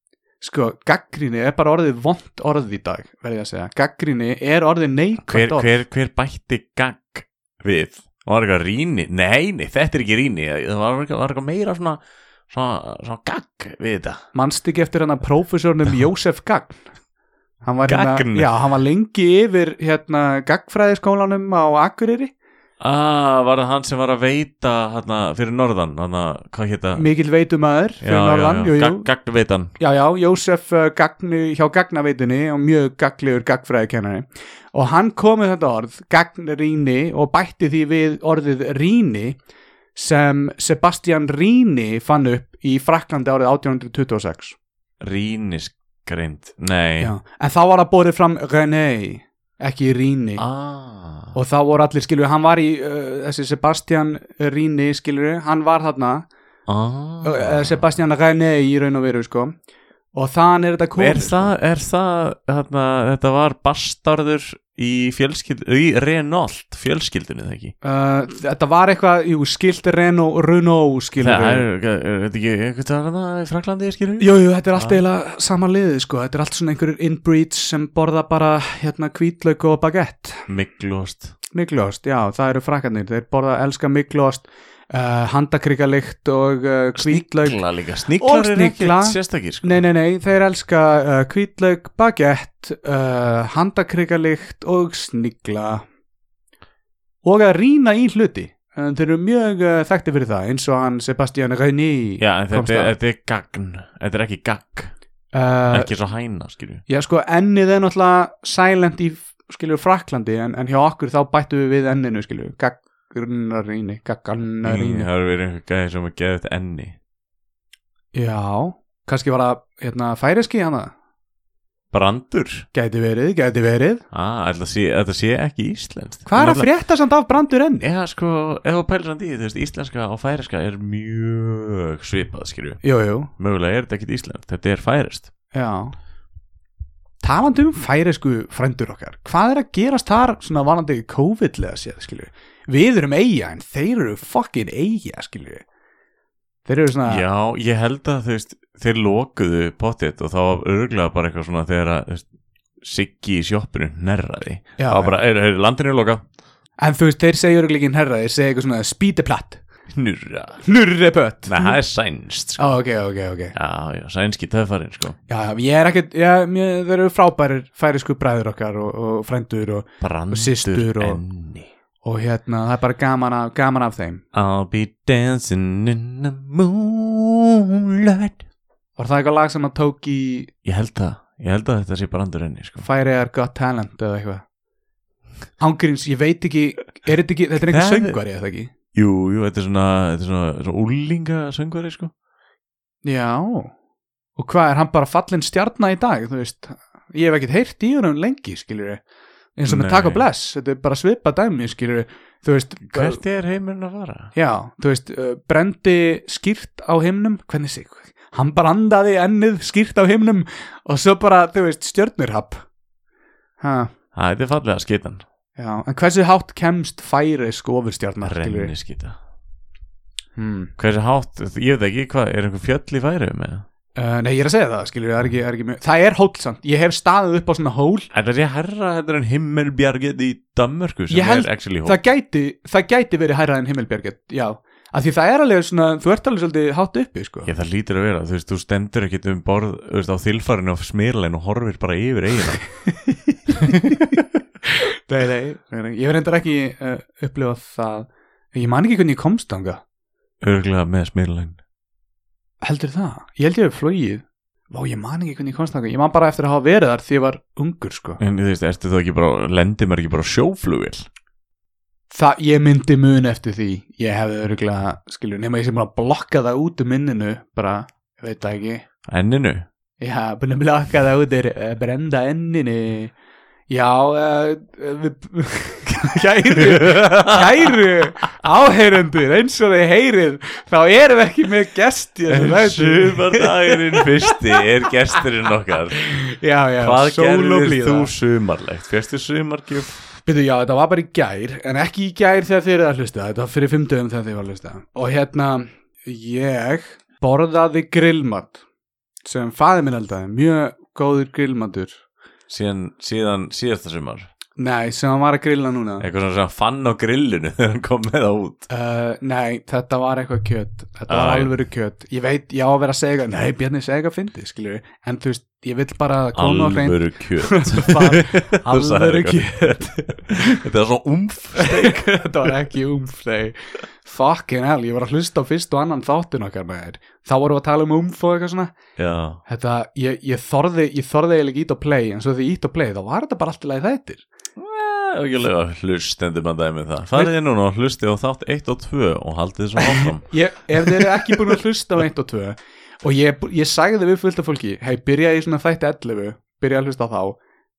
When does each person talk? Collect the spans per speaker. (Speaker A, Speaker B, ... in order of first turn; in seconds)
Speaker A: 0.4-5.7, 14.3-16.8, 17.6-22.3, 26.9-29.1, 29.8-39.4, 39.9-44.5, 47.0-50.4, 51.3-56.3, 57.2-59.5, 60.1-61.5, 67.8-71.6, 74.2-80.4, 81.5-87.6, 88.2-95.8, 97.2-102.9, 105.3-105.9, 106.9-115.1, 118.1-120.9, 122.7-124.0, 126.2-127.8, 132.8-133.3, 135.5-135.9, 137.2-145.6, 146.6-147.2, 154.8-155.1, 156.8-159.6, 160.6-161.8, 162.6-163.5, 165.3-171.2, 172.0-174.2, 179.0-180.5, 182.8-184.4, 185.6-188.7, 193.0-193.7, 194.3-199.0, 199.6-203.2, 204.3-212.6, 213.6-213.9, 215.6-218.7, 220.3-220.7, 223.9-228.1, 231.1-237.5, 242.9-244.0, 244.7-249.8, 252.6-258.2, 262.1-268.8, 270.0-273.1, 273.7-284.4, 286.2-288.1, 290.2-298.6, 299.2-302.0, 304.6-306.1, 308.7-320.6, 321.6-328.7, 329.4-334.2, 339.9-347.4
Speaker B: 5.3-14.2, 17.9-18.5, 22.8-27.1, 28.0-29.7, 45.0-47.1, 50.4-51.4, 56.7-57.8, 61.0-67.7, 71.2-75.0, 80.5-81.3, 87.0-89.8, 102.2-104.9, 105.7-106.8, 114.6-117.0, 121.9-122.7, 124.1-126.7, 127.8-132.8, 133.4-135.3, 147.1-152.2, 152.8-156.2, 159.9-160.6, 161.4-162.6, 163.5-165.2, 170.0-171.7, 174.3-178.4, 180.6-182.9, 187.7-188.2, 188.9-192.1, 199.7-200.2, 202.9-204.3, 214.1-215.2, 218.2-219.2, 220.8-223.6, 228.1-232.0, 237.4-242.6, 243.5-244.2, 250.4-251.6, 258.2-261.1, 269.1-269.7, 276.6-277.9, 282.3-286.2, 286.8-290.1, 302.5-304.3, 306.0-308.7, 311.1-311.5, 316.4-322.5, 329.0-329.4, 334.6-341.5